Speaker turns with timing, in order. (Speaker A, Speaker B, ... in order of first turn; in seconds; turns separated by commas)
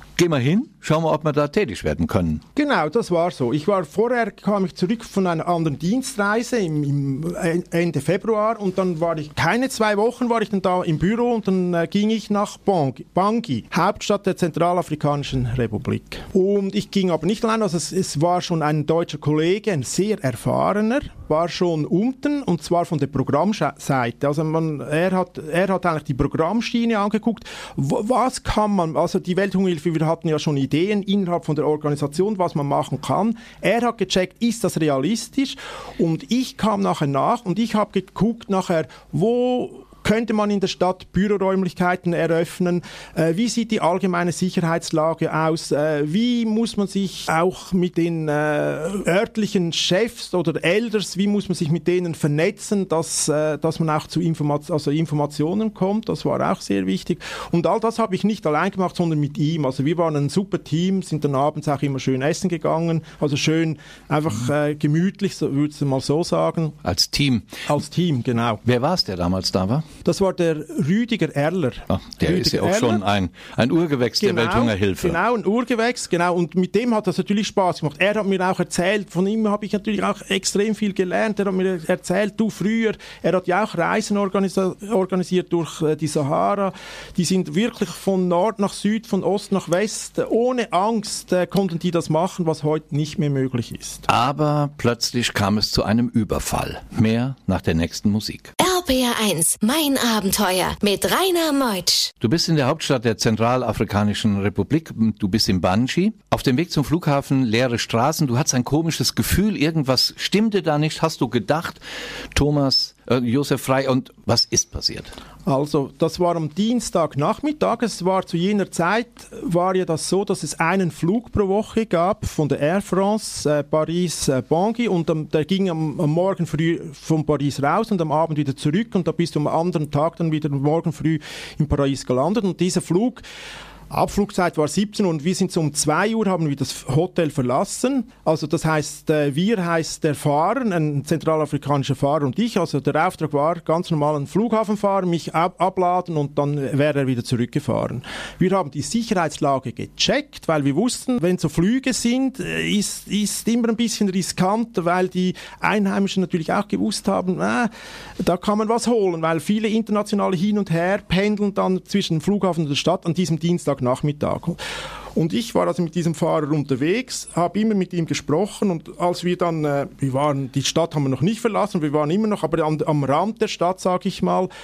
Speaker A: 0.1-2.4, Speaker B: 2.5-66.8, Speaker A: 66.8-67.6, Speaker B: 67.7-68.6, Speaker A: 68.6-69.8, Speaker B: 70.0-73.0, Speaker A: 71.9-75.2, Speaker B: 74.2-94.0, Speaker A: 94.1-98.5, Speaker C: 98.6-102.1, Speaker A: 102.2-111.8, Speaker A: 112.3-115.1, Speaker B: 115.5-133.2, Speaker B: 133.9-164.6, Speaker B: 165.1-174.5